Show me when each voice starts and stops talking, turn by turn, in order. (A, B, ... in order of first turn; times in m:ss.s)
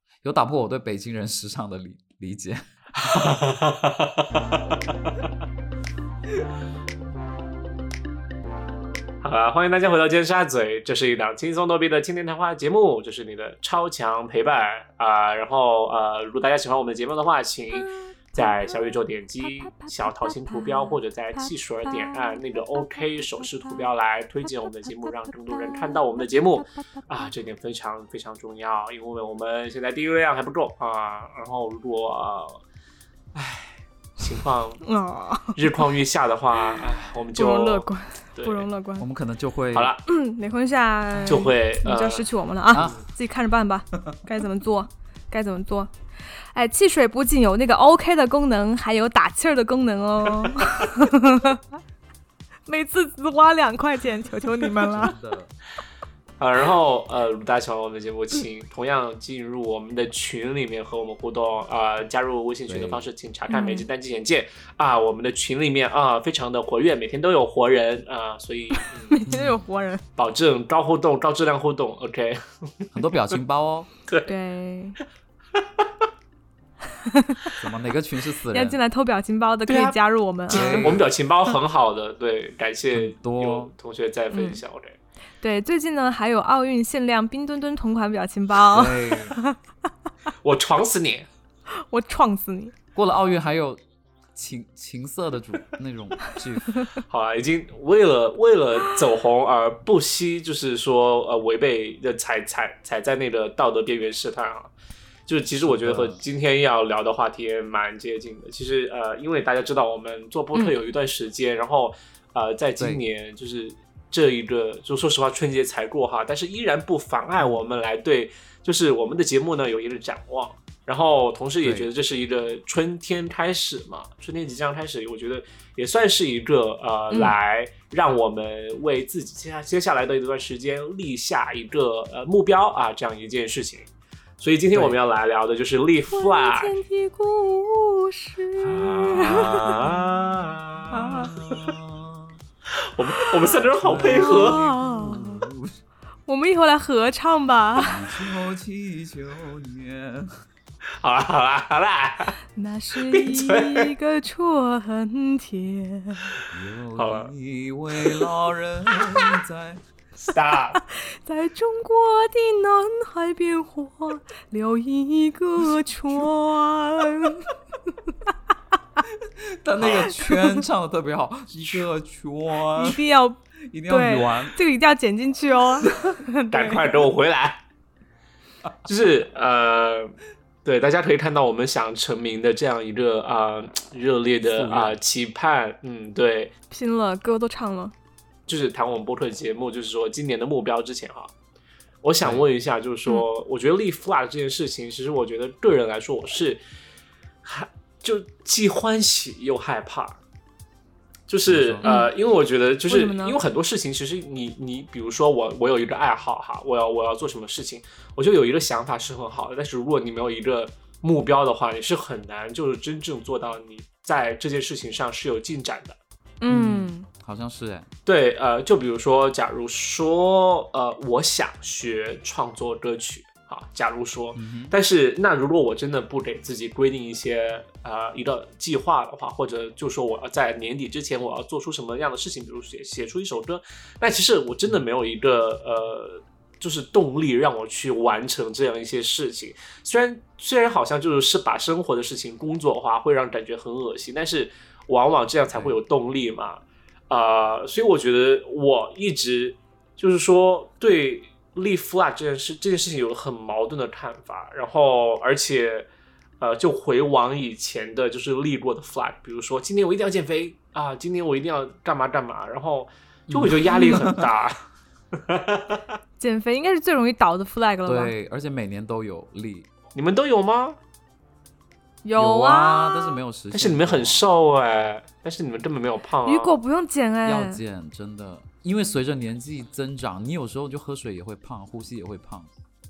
0:00.2-0:02.6 A
0:03.0-0:05.3 B
0:09.2-0:32.6 B
0:17.7-0:18.9 C
0:19.4-0:23.8 C
0:24.5-0:27.3 C
0:33.3-0:34.8 B
0:34.8-0:35.8 C
0:35.6-0:38.7 B
0:36.6-0:39.1 C
0:39.0-0:39.9 A
0:39.7-0:40.0 B
0:40.1-0:45.9 C
0:41.2-0:42.2 B
0:42.7-0:43.0 A
0:46.5-0:51.6 C
0:50.4-0:50.9 B
0:52.7-0:55.2 C
0:54.9-0:55.5 A
0:56.4-1:09.1 B
1:02.7-1:03.0 A
1:03.5-1:03.8 C
1:08.8-1:10.0 C
1:09.3-1:09.6 A
1:10.2-1:12.9 B
1:12.9-1:13.9 A
1:14.1-1:14.3 B
1:14.3-1:15.0 C
1:15.5-1:15.9 B
1:17.0-1:17.5 C
1:17.6-1:18.8 A
1:18.5-1:20.9 C
1:19.7-1:20.0 B
1:20.5-1:25.0 B
1:20.5-1:21.0 A
1:22.9-1:23.7 A
1:24.3-1:24.6 C
1:25.4-1:29.6 C
1:28.7-1:29.4 A
1:30.4-1:31.3 B
1:31.9-1:32.7 C
1:32.9-1:33.8 A
1:34.3-1:36.8 A
1:37.1-1:44.7 B
1:45.3-2:13.9 B
1:45.6-1:46.2 A
2:01.6-2:01.9 A
2:07.1-2:07.4 C
2:14.4-2:16.8 B
2:16.1-2:19.8 C
2:18.6-2:21.7 B
2:18.6-2:22.4 A
2:20.9-2:21.3 C
2:22.8-2:24.6 B
2:23.2-2:25.4 C
2:23.8-2:25.8 A
2:26.3-2:28.2 C
2:27.8-2:30.3 A
2:31.0-2:32.3 B
2:32.6-2:36.3 C
2:32.9-2:33.9 B
2:36.5-2:39.8 A
2:37.0-2:37.3 B
2:40.2-2:40.8 B
2:40.9-2:47.5 C
2:49.6-2:53.0 A
2:49.8-2:50.1 B
2:50.2-2:50.6 C
2:52.7-2:57.0 C
2:53.7-2:54.6 A
2:56.5-2:57.6 B
2:58.8-3:06.5 B
3:04.4-3:04.9 A
3:06.7-3:07.9 C
3:08.5-3:11.3 B
3:12.0-3:16.6 B
3:17.4-3:20.2 B
3:21.3-3:36.0 B
3:21.4-3:21.9 A
3:21.8-3:22.1 C
3:22.9-3:23.4 C
3:36.4-3:37.1 C
3:36.5-3:37.9 A
3:38.0-4:15.9 B
3:44.3-3:44.8 A
4:05.5-4:05.8 A
4:16.4-4:24.6 B
4:23.3-4:24.2 A
4:25.1-4:25.8 B
4:26.2-4:28.1 C
4:27.8-4:29.7 A
4:29.9-4:30.8 B
4:32.0-4:33.2 C
4:32.2-4:34.2 A
4:33.5-4:36.6 B
4:36.2-4:37.6 C
4:37.2-4:42.5 A